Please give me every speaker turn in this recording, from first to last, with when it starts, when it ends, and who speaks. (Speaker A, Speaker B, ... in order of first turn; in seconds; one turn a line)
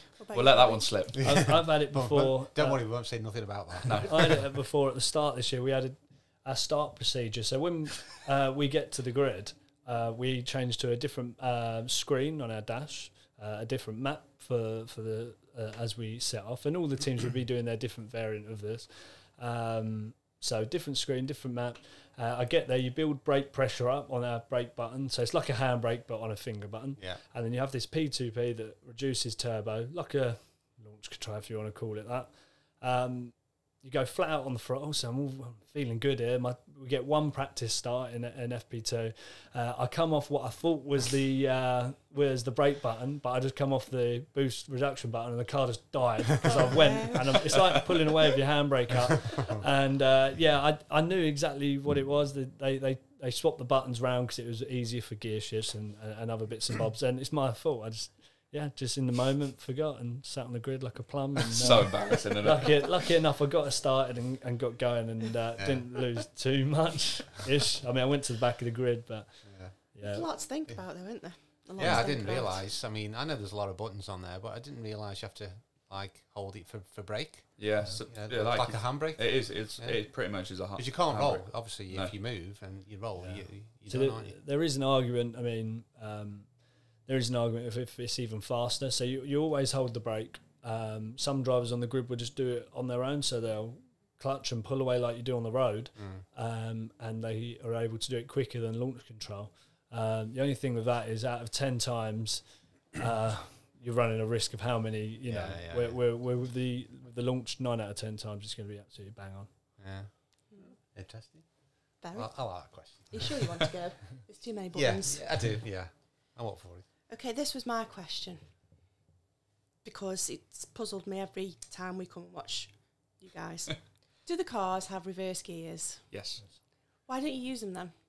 Speaker A: 0.2-0.9
Speaker B: 0.3-1.6
Speaker C: 1.2-4.4
Speaker D: 1.2-2.9
Speaker B: 3.9-4.4
Speaker D: 4.0-70.4
Speaker A: 46.5-47.8
Speaker B: 61.6-63.0
Speaker C: 65.6-65.9
Speaker C: 69.4-69.8
Speaker A: 70.0-72.6
Speaker C: 71.8-84.4
Speaker B: 77.6-82.1
Speaker D: 83.2-109.5
Speaker C: 96.0-96.2
Speaker C: 105.3-106.0
Speaker C: 109.8-113.4
Speaker A: 110.5-110.8
Speaker A: 112.0-115.3
Speaker C: 114.7-116.9
Speaker A: 117.1-118.5
Speaker A: 119.8-126.2
Speaker B: 126.1-126.4
Speaker A: 127.1-128.0